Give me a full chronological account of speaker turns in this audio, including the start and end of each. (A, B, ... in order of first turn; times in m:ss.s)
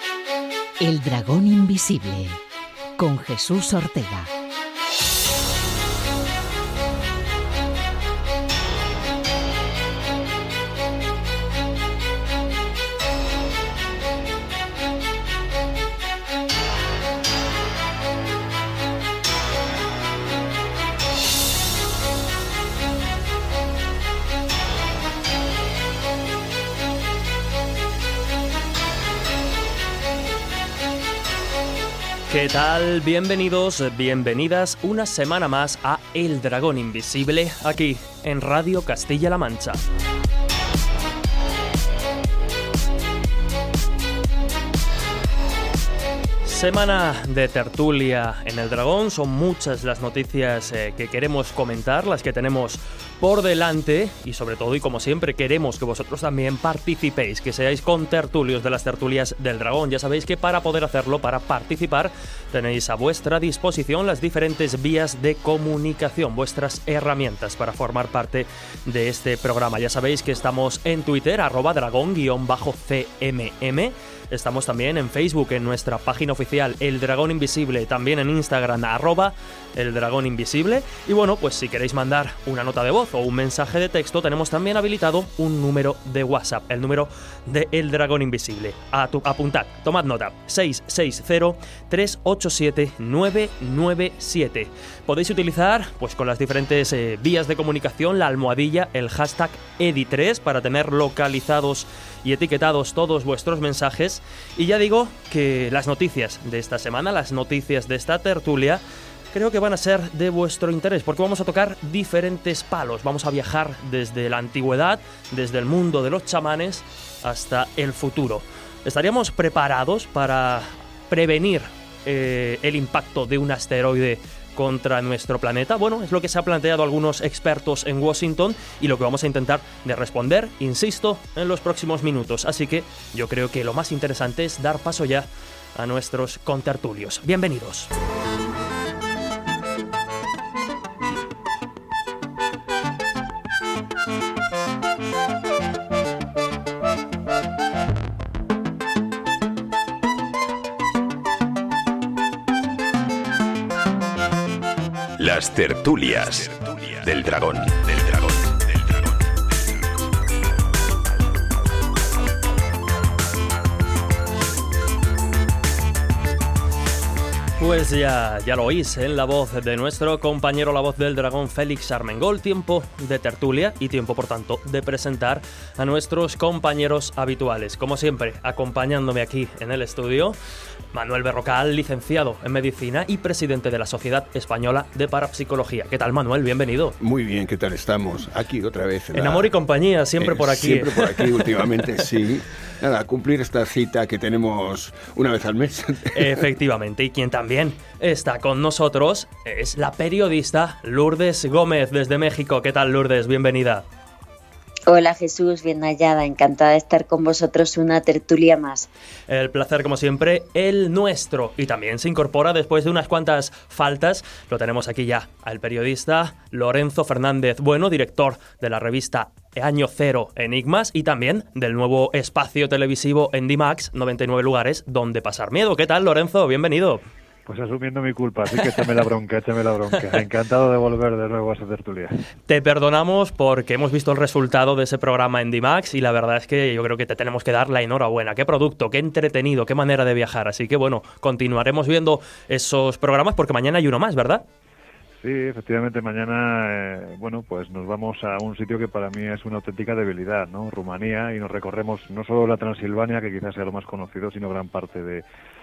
0:00.8-0:02.4 A
0:03.0-0:04.3 A
0:32.3-0:39.8 B
0:46.4-2:17.9 B
2:35.2-2:38.7 C
2:47.6-3:00.4 B
3:00.9-3:07.0 B
3:07.0-3:09.5 D
3:09.1-3:11.8 B
3:10.2-3:16.4 D
3:16.1-3:23.8 B
3:24.9-3:28.9 E
3:29.3-3:47.0 B
3:47.5-3:52.2 F
3:52.5-4:04.4 B
4:05.2-4:15.2 F